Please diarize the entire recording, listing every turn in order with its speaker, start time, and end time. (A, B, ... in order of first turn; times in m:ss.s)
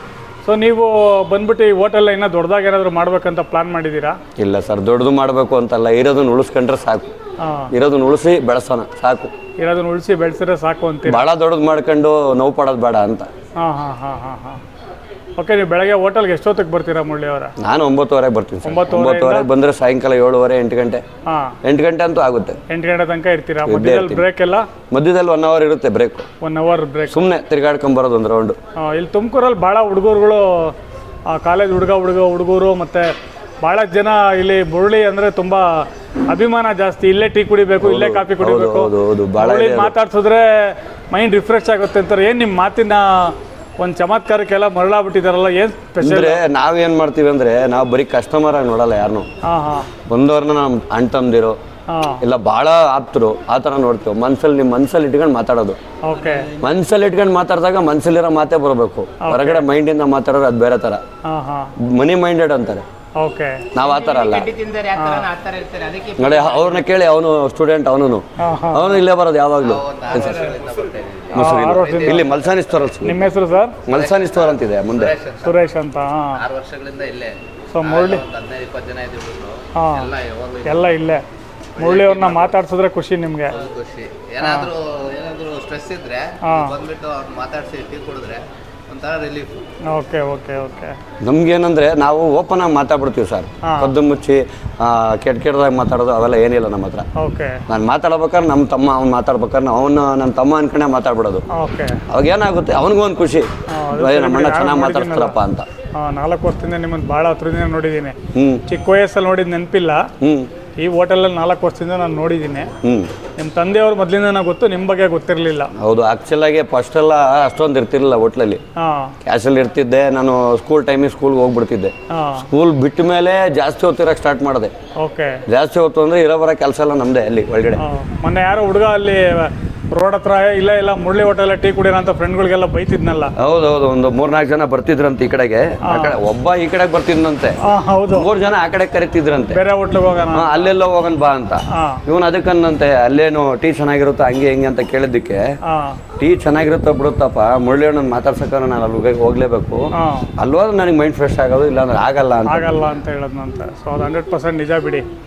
0:00.4-0:04.2 A
0:04.4-0:07.1 B
0:07.4-0:07.7 A
0:07.7-0:09.3 B
0:09.6-0:11.2 A
0:11.0-0:13.3 B
0:13.6-0:14.6 A
0:15.4-0:17.5 A
0:17.6-0:21.0 B
0:18.6-0:19.5 A
0:21.3-0:21.6 A
0:21.6-0:22.6 B
0:22.7-0:24.7 A
0:23.6-0:24.2 B
0:24.9-0:26.3 B
0:26.4-0:27.2 A
0:27.1-0:28.6 B
0:28.8-0:30.7 A
0:31.3-0:46.4 A
0:37.8-0:39.9 B
0:46.0-0:49.3 B
0:49.4-0:49.9 A
0:50.1-0:51.6 B
0:51.9-0:52.2 A
0:52.2-0:55.8 B
0:56.0-0:56.5 A
0:56.6-1:01.0 B
0:59.2-0:59.6 A
1:01.2-1:01.7 A
1:01.8-1:02.8 B
1:03.2-1:03.6 A
1:03.7-1:04.5 B
1:03.8-1:06.8 C
1:04.9-1:05.3 A
1:06.2-1:10.6 B
1:08.4-1:09.0 A
1:09.6-1:12.5 C
1:11.3-1:13.2 B
1:11.3-1:12.3 A
1:13.0-1:13.8 A
1:13.9-1:15.2 B
1:13.9-1:15.6 C
1:15.4-1:16.4 A
1:16.3-1:21.0 C
1:17.7-1:18.2 A
1:19.7-1:20.1 A
1:20.6-1:21.2 A
1:21.7-1:22.5 C
1:21.8-1:23.6 A
1:23.5-1:29.6 C
1:24.4-1:24.7 A
1:26.4-1:26.8 A
1:29.9-1:30.9 A
1:31.2-1:37.0 B
1:33.6-1:33.9 A
1:37.2-1:37.6 A
1:37.7-1:41.4 B
1:41.5-1:42.0 A
1:42.1-1:45.6 B
1:43.7-1:45.3 A
1:45.9-1:48.2 A
1:48.3-1:48.6 B
1:48.7-1:50.1 A
1:50.2-1:50.5 B
1:50.8-1:52.7 A
1:52.8-1:53.1 B
1:53.4-1:55.7 A
1:55.8-1:58.6 B
1:58.8-1:59.1 A
1:59.2-2:04.7 B
2:02.1-2:02.5 A
2:05.0-2:05.4 A
2:05.5-2:07.8 B
2:07.8-2:13.3 A
2:13.4-2:17.6 B
2:15.8-2:16.2 A
2:17.6-2:18.3 A
2:18.1-2:19.6 B
2:19.5-2:20.7 A
2:20.3-2:25.4 B
2:21.7-2:22.0 A
2:25.6-2:26.0 A
2:26.2-2:32.8 B
2:29.9-2:30.3 A
2:32.5-2:35.0 A